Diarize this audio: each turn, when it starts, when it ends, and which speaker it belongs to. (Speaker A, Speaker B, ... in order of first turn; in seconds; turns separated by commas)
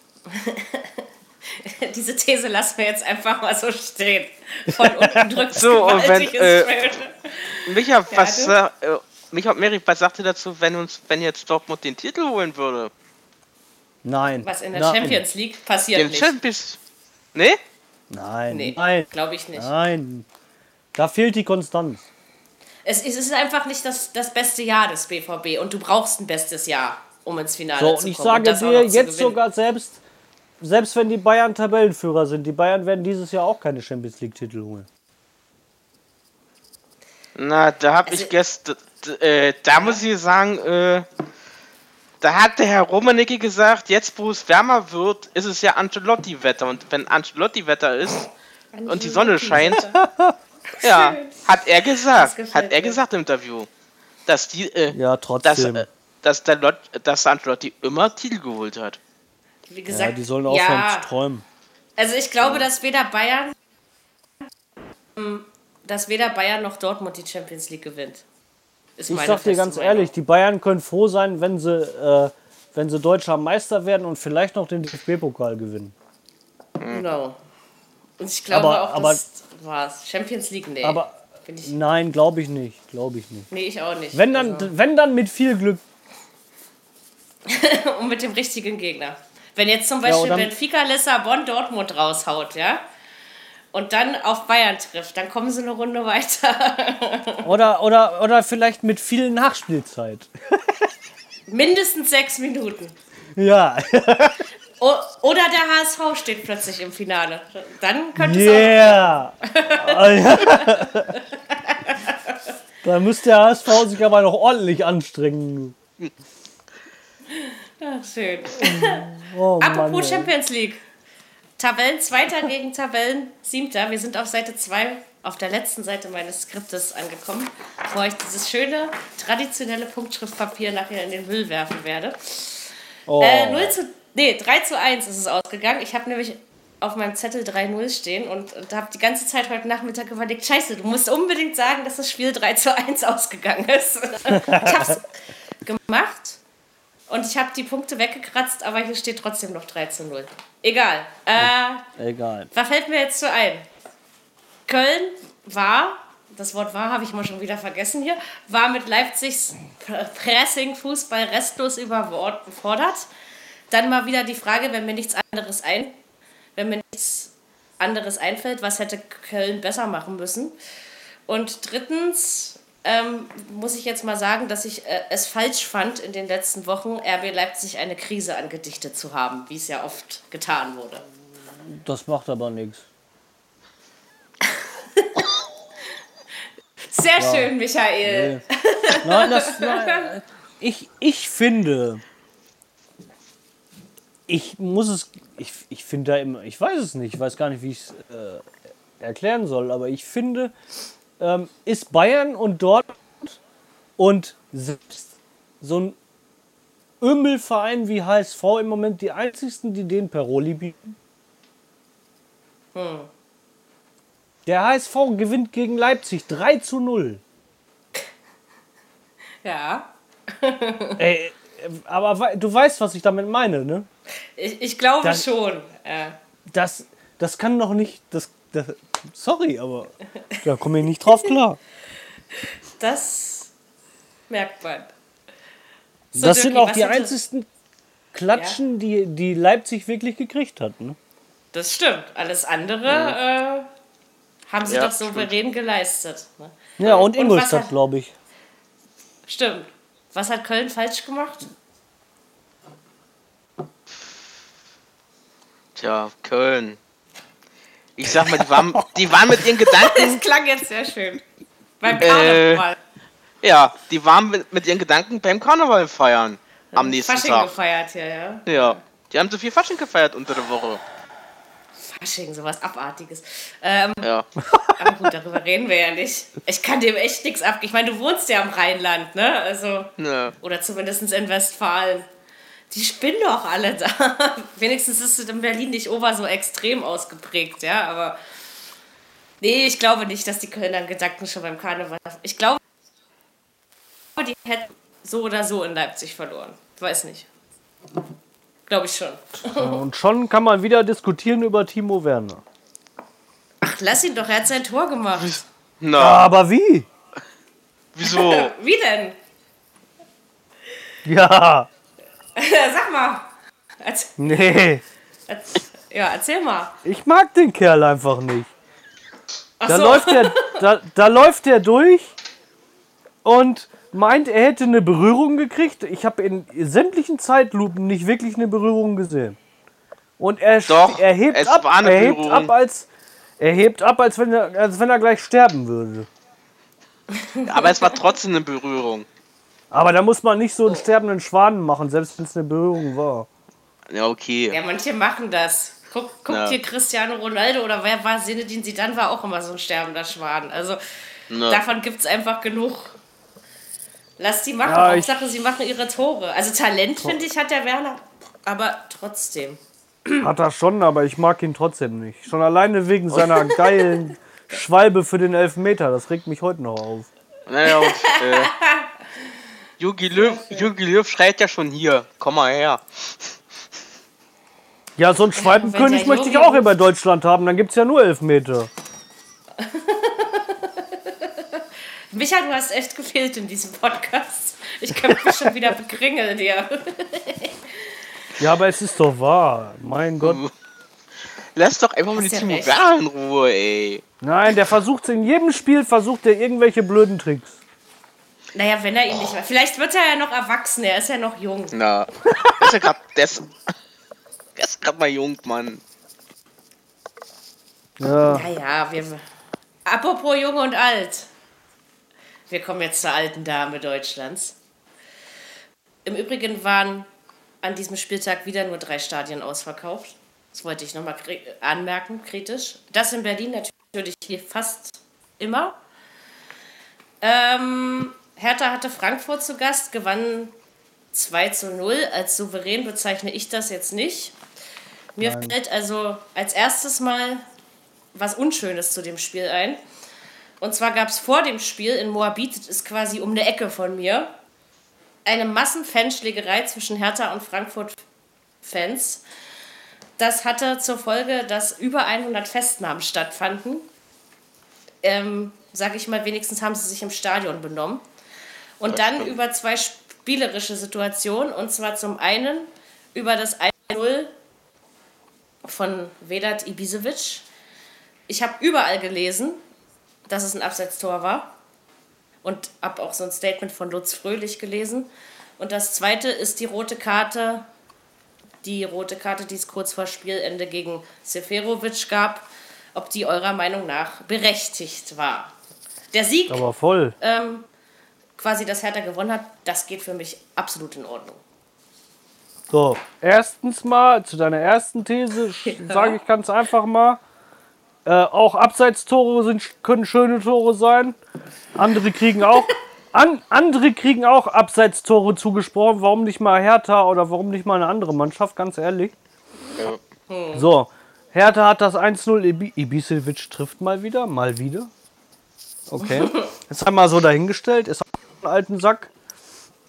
Speaker A: 0.3-8.6, Speaker B: 4.8-5.4, Speaker C: 5.5-6.7, Speaker C: 7.7-12.9, Speaker B: 14.0-15.2, Speaker A: 14.4-16.3, Speaker C: 15.9-16.8, Speaker C: 17.4-17.6, Speaker B: 18.1-20.3, Speaker A: 18.5-19.7, Speaker B: 20.9-22.1, Speaker A: 22.9-29.4, Speaker B: 27.8-30.0, Speaker B: 30.6-34.9, Speaker C: 37.4-41.1, Speaker A: 38.1-38.3, Speaker A: 39.7-40.0, Speaker C: 42.2-48.3, Speaker A: 48.7-50.0, Speaker C: 48.9-49.8, Speaker B: 49.8-50.4, Speaker A: 50.7-51.4, Speaker C: 50.8-53.7, Speaker A: 52.1-53.0, Speaker C: 54.3-59.0, Speaker B: 54.9-55.9, Speaker A: 59.7-61.1, Speaker B: 59.9-61.5, Speaker A: 62.0-63.5, Speaker A: 65.2-68.2, Speaker A: 69.0-70.1, Speaker B: 69.1-75.9, Speaker C: 76.8-77.0, Speaker A: 76.9-77.4, Speaker A: 78.2-81.7, Speaker B: 78.5-79.2, Speaker B: 80.8-83.5, Speaker A: 83.5-84.7, Speaker B: 84.1-85.8, Speaker A: 87.5-92.8, Speaker B: 90.0-90.5, Speaker A: 93.7-97.5, Speaker B: 97.4-100.7, Speaker A: 101.5-103.0, Speaker B: 103.3-104.4, Speaker A: 104.8-112.4, Speaker B: 108.2-111.1, Speaker B: 112.8-115.8, Speaker A: 117.3-119.1, Speaker B: 118.6-120.3, Speaker A: 119.6-120.8, Speaker A: 121.6-146.4, Speaker B: 133.1-133.8, Speaker B: 144.3-145.0, Speaker A: 147.1-151.9, Speaker B: 151.4-152.5, Speaker A: 152.5-153.7, Speaker A: 154.7-163.1, Speaker A: 163.7-166.0, Speaker A: 166.6-170.6, Speaker A: 171.3-181.1, Speaker B: 181.7-182.8, Speaker A: 185.0-185.2, Speaker A: 186.9-190.1, Speaker B: 187.2-192.0, Speaker B: 194.3-198.5, Speaker B: 199.0-200.5, Speaker B: 201.2-203.4, Speaker B: 204.0-206.0, Speaker B: 207.0-210.9, Speaker A: 212.8-213.1, Speaker B: 214.5-217.2, Speaker A: 219.4-221.0, Speaker B: 221.0-223.9, Speaker A: 224.4-226.2, Speaker B: 226.5-231.6, Speaker A: 232.4-233.5, Speaker A: 234.3-234.9, Speaker B: 236.1-237.5, Speaker A: 236.2-237.2, Speaker B: 238.1-241.0, Speaker A: 238.3-238.6, Speaker A: 241.5-243.7, Speaker C: 242.9-243.2, Speaker A: 244.5-246.6, Speaker C: 244.7-245.3, Speaker B: 246.8-248.1, Speaker C: 246.8-247.1, Speaker A: 247.1-247.7, Speaker A: 249.3-251.5, Speaker C: 255.8-256.8, Speaker C: 258.0-260.2, Speaker A: 259.7-261.2, Speaker A: 261.8-262.8, Speaker C: 262.0-262.6, Speaker C: 263.4-267.5, Speaker A: 266.7-268.8, Speaker C: 268.5-270.8, Speaker A: 271.8-274.1, Speaker C: 274.0-274.3, Speaker B: 274.5-274.9, Speaker A: 274.8-282.1, Speaker C: 280.0-280.4, Speaker A: 282.7-288.2, Speaker A: 289.4-292.6, Speaker A: 294.2-297.3, Speaker A: 298.7-299.8, Speaker B: 299.5-302.4, Speaker A: 303.6-305.4, Speaker C: 305.2-306.2, Speaker B: 306.0-306.9, Speaker C: 307.9-308.5, Speaker A: 308.1-309.2, Speaker B: 311.1-311.7, Speaker A: 312.4-313.3, Speaker A: 313.8-314.3, Speaker B: 314.2-314.8, Speaker A: 315.3-316.8, Speaker B: 316.8-318.5, Speaker A: 319.6-320.6, Speaker B: 319.6-322.1, Speaker B: 323.2-329.4, Speaker B: 330.2-332.9, Speaker C: 330.7-332.5, Speaker B: 333.4-336.1, Speaker A: 337.1-338.0, Speaker C: 337.5-339.1, Speaker B: 339.7-343.3, Speaker C: 343.9-344.6, Speaker A: 344.5-350.8, Speaker C: 346.3-346.6, Speaker C: 351.3-351.6, Speaker A: 351.4-352.9, Speaker A: 354.2-360.3, Speaker B: 354.6-355.2, Speaker B: 360.2-367.1, Speaker C: 363.1-363.4, Speaker C: 367.5-368.5, Speaker A: 367.7-368.9, Speaker C: 369.8-373.4, Speaker A: 370.1-370.7, Speaker B: 375.0-378.7, Speaker A: 375.4-376.7, Speaker A: 379.6-388.0, Speaker B: 388.4-390.4, Speaker C: 390.2-390.5, Speaker C: 391.6-394.0, Speaker A: 392.2-392.8, Speaker B: 394.2-397.6, Speaker A: 398.5-401.7, Speaker C: 401.7-403.5, Speaker C: 404.6-405.8, Speaker B: 408.0-408.5, Speaker A: 408.2-409.2, Speaker A: 409.9-411.3, Speaker A: 412.5-414.6, Speaker A: 416.1-417.1, Speaker A: 417.6-425.8, Speaker A: 427.2-430.5, Speaker A: 431.1-434.4, Speaker A: 435.2-437.5, Speaker B: 435.2-435.6, Speaker A: 438.1-439.8, Speaker A: 440.6-444.3, Speaker A: 445.2-448.0, Speaker A: 448.6-449.2, Speaker A: 450.2-453.9, Speaker A: 455.0-458.0, Speaker A: 458.8-464.3, Speaker C: 458.9-459.3, Speaker A: 465.6-467.5, Speaker A: 468.3-469.6, Speaker A: 470.3-471.5, Speaker A: 472.4-477.7, Speaker A: 478.6-485.6, Speaker A: 486.1-486.7, Speaker B: 486.5-487.1, Speaker A: 487.2-487.7, Speaker A: 488.4-491.4, Speaker B: 492.7-497.2, Speaker A: 495.6-496.2, Speaker B: 498.1-501.2, Speaker B: 501.8-509.1, Speaker A: 510.3-510.7, Speaker B: 510.6-514.9, Speaker B: 515.9-519.1, Speaker A: 516.0-516.5